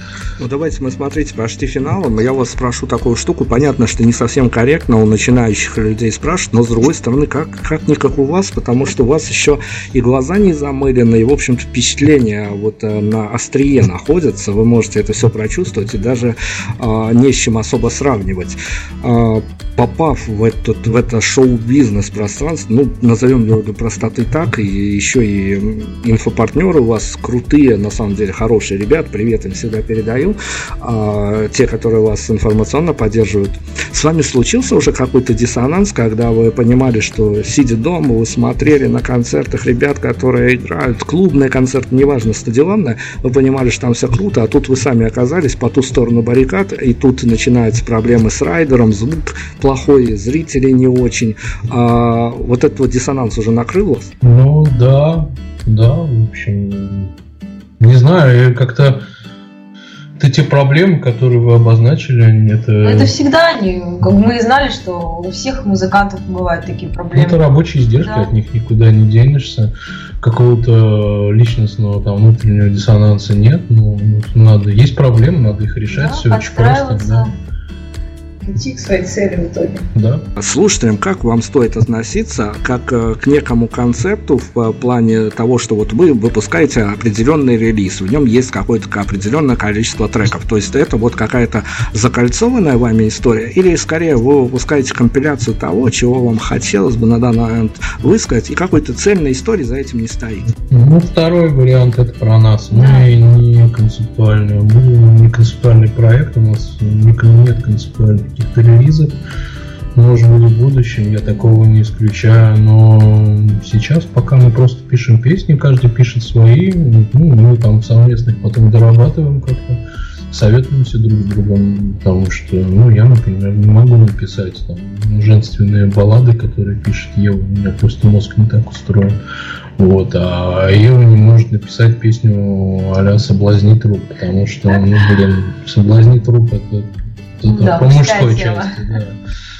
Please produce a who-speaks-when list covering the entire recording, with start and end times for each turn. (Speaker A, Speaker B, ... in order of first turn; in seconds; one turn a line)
Speaker A: 0.4-54.1
Speaker B: 54.2-57.1
Speaker B: 57.8-59.0
Speaker B: 60.2-63.1
Speaker C: 62.8-67.4
Speaker B: 67.1-77.3
Speaker C: 68.0-68.3
Speaker C: 75.9-77.3
Speaker C: 78.5-79.8
Speaker B: 79.9-80.2
Speaker A: 80.4-100.5
Speaker B: 100.6-109.1
Speaker C: 102.7-103.1
Speaker B: 109.9-129.2
Speaker B: 129.8-139.2
Speaker C: 137.4-138.9